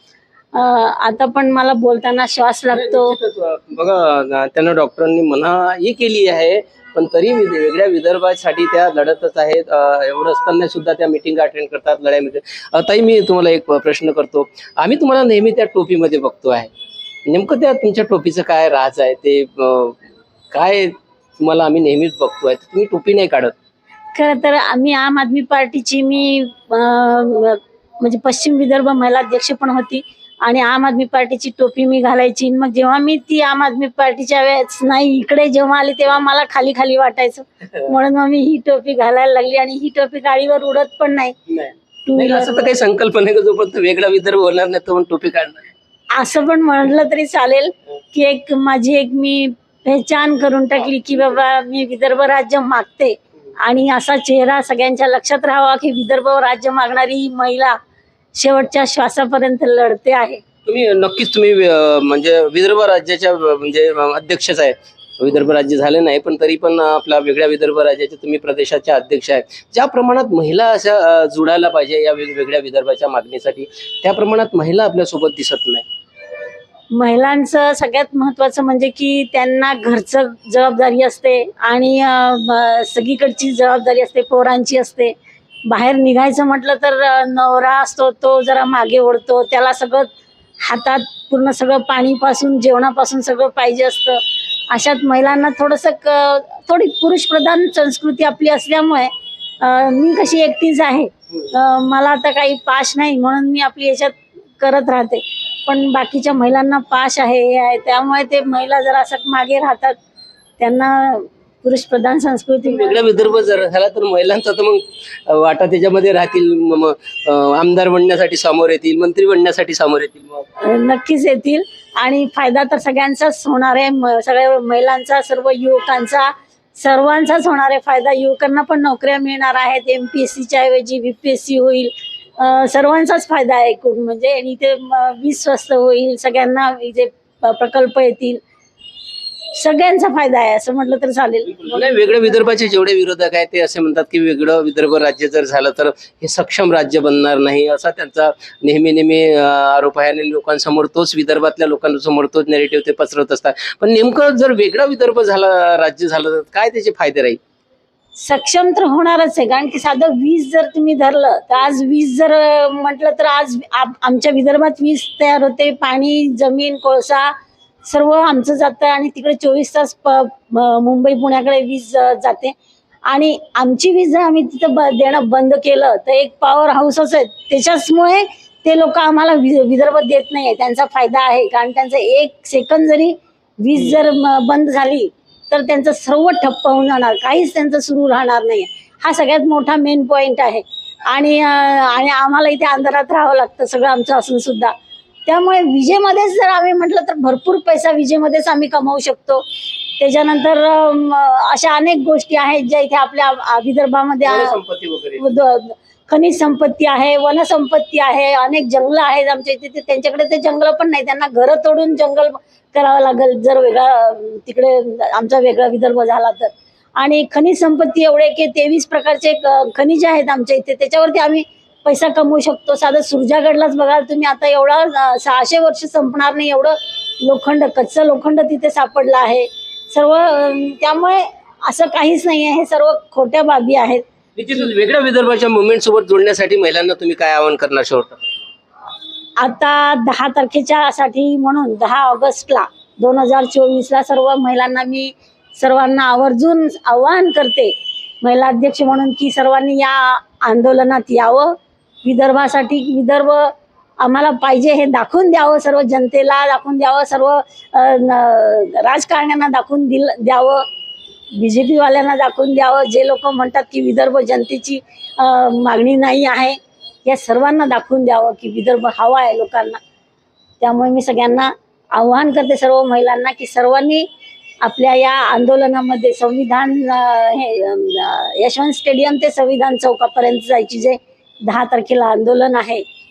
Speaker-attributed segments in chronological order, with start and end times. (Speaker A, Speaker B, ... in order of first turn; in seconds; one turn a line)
Speaker A: 0.5-3.1
Speaker B: 2.7-16.7
Speaker B: 17.3-20.0
Speaker B: 20.5-23.5
Speaker A: 24.1-41.4
Speaker B: 41.5-45.6
Speaker A: 42.0-42.7
Speaker A: 46.1-57.8
Speaker A: 58.3-60.4
Speaker B: 60.6-75.8
Speaker A: 76.9-85.1
Speaker A: 85.7-90.1
Speaker A: 90.6-110.0
Speaker A: 110.6-113.1
Speaker B: 112.6-120.4
Speaker A: 120.6-138.4
Speaker A: 139.5-142.4
Speaker B: 141.6-157.4
Speaker A: 158.2-172.5
Speaker A: 173.1-194.7
Speaker A: 195.3-199.4
Speaker A: 200.0-204.6
Speaker B: 204.2-205.2
Speaker A: 205.2-234.0
Speaker B: 234.3-238.2
Speaker A: 239.4-260.6
Speaker A: 261.3-269.8
Speaker A: 270.6-274.1
Speaker A: 274.6-282.8